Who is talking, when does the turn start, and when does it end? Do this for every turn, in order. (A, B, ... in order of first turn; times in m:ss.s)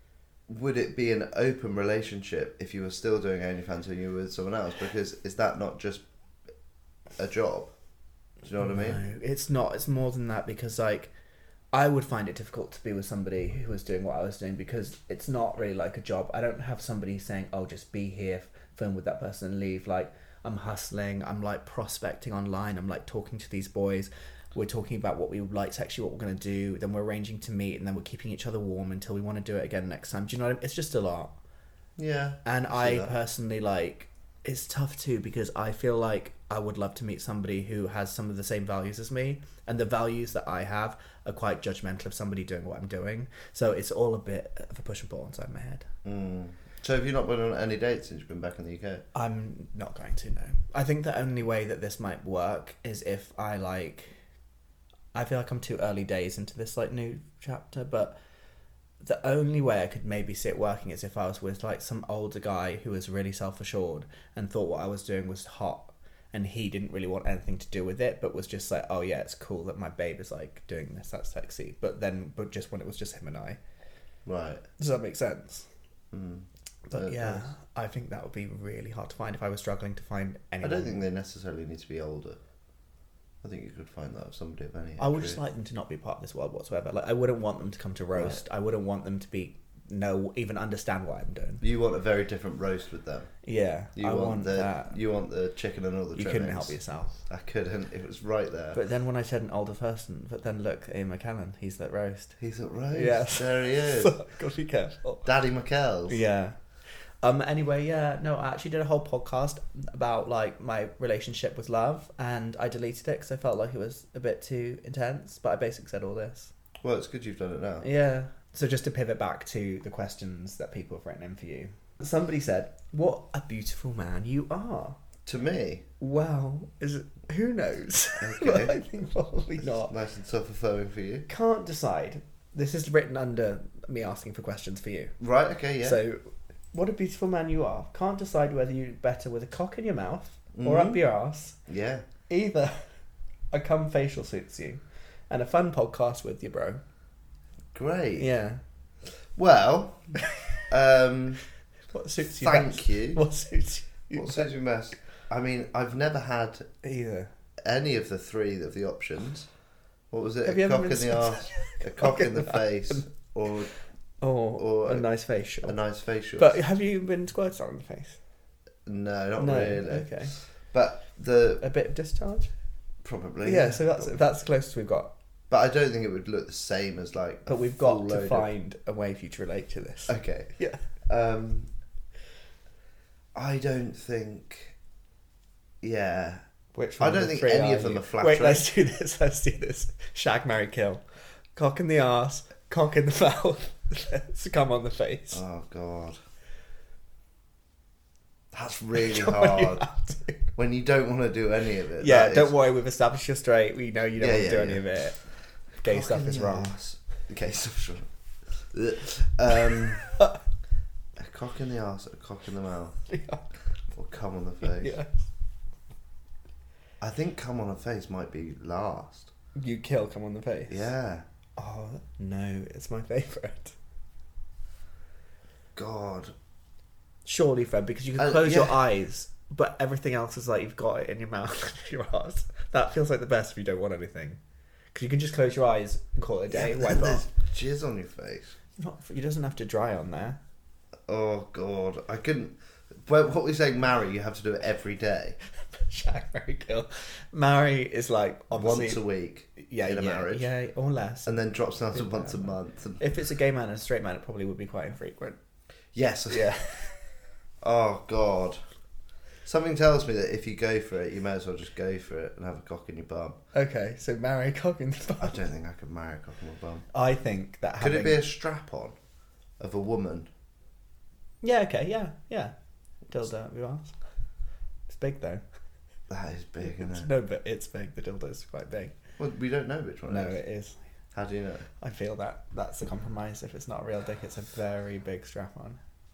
0:00.5-0:06.0 A
0:07.2-0:07.7 A
0:08.4-0:09.0 A
0:08.6-0:11.1 B
0:11.7-0:31.3 B
0:32.0-0:33.2 A
0:32.4-0:45.8 B
0:46.0-0:49.0 A
0:49.1-0:54.1 B
0:55.1-0:58.1 B
0:59.0-1:13.6 B
1:14.2-1:14.6 A
1:14.8-1:15.7 B
1:16.1-1:17.5 A
1:16.9-1:21.0 B
1:20.6-1:22.4 A
1:23.4-1:25.4 A
1:25.0-1:31.6 B
1:28.1-1:28.4 A
1:31.6-1:33.3 A
1:33.4-1:35.0 B
1:33.9-1:38.8 A
1:36.1-1:37.2 B
1:38.7-1:42.4 B
1:42.4-1:44.2 A
1:42.9-1:45.2 B
1:45.2-1:46.2 A
1:46.1-1:46.6 B
1:47.2-1:56.5 B
1:56.8-1:57.8 A
1:57.8-2:05.0 B
2:05.2-2:05.8 A
2:06.0-2:09.9 B
2:08.2-2:08.8 A
2:09.6-2:11.3 A
2:11.3-2:15.1 B
2:15.2-2:16.0 A
2:15.8-2:21.6 B
2:20.5-2:21.0 A
2:21.7-2:22.0 A
2:22.3-2:22.8 B
2:23.5-2:26.8 B
2:27.7-2:28.3 A
2:28.2-2:28.6 B
2:29.4-2:30.2 A
2:30.3-2:30.6 B
2:30.7-2:31.4 A
2:31.9-2:34.5 B
2:32.4-2:33.2 A
2:34.1-2:36.7 A
2:36.8-2:37.3 B
2:37.6-2:39.5 A
2:40.1-2:43.7 A
2:40.4-2:43.0 B
2:44.2-2:45.8 B
2:44.6-2:45.1 A
2:45.6-2:46.6 A
2:46.4-2:48.2 B
2:48.8-2:50.1 A
2:49.4-2:50.3 B
2:50.7-2:51.6 A
2:51.6-2:52.5 B
2:53.0-2:54.2 A
2:53.4-2:55.1 B
2:55.5-2:58.5 A
2:57.5-3:00.8 B
3:00.1-3:00.5 A
3:01.1-3:01.7 A
3:03.3-3:04.7 A
3:05.8-3:06.4 A
3:06.7-3:11.0 B
3:07.0-3:08.7 A
3:11.5-3:15.4 B
3:15.3-3:16.2 A
3:18.5-3:19.8 A
3:18.9-3:20.5 B
3:20.6-3:22.5 A
3:22.0-3:25.2 B
3:24.2-3:24.8 A
3:25.8-3:26.7 B
3:25.8-3:28.1 A
3:28.6-3:30.1 A
3:31.2-3:33.0 A
3:33.1-3:33.4 B
3:33.9-3:35.0 A
3:34.6-3:35.2 B
3:37.0-3:39.3 A
3:39.6-3:40.9 B
3:40.7-3:41.2 A
3:41.6-3:43.7 B
3:45.7-3:46.3 A
3:47.2-3:54.4 B
3:48.2-3:48.8 A
3:54.9-3:57.2 B
3:56.5-3:58.5 A
3:58.8-4:00.4 B
4:01.1-4:05.4 A
4:05.7-4:09.0 B
4:08.5-4:10.5 A
4:09.6-4:11.4 B
4:11.2-4:13.0 A
4:11.9-4:15.4 B
4:15.9-4:16.5 A
4:16.3-4:17.0 B
4:17.6-4:18.6 A
4:19.4-4:23.4 A
4:23.5-4:25.4 B
4:25.2-4:26.8 A
4:26.9-4:28.2 B
4:27.8-4:28.9 A
4:29.6-4:30.3 A
4:31.4-4:32.5 B
4:33.1-4:34.0 B
4:34.9-4:35.4 B
4:36.1-4:37.1 A
4:36.6-4:38.9 B
4:39.2-4:40.4 A
4:40.1-4:40.8 B
4:41.1-4:41.7 A
4:41.8-4:45.8 B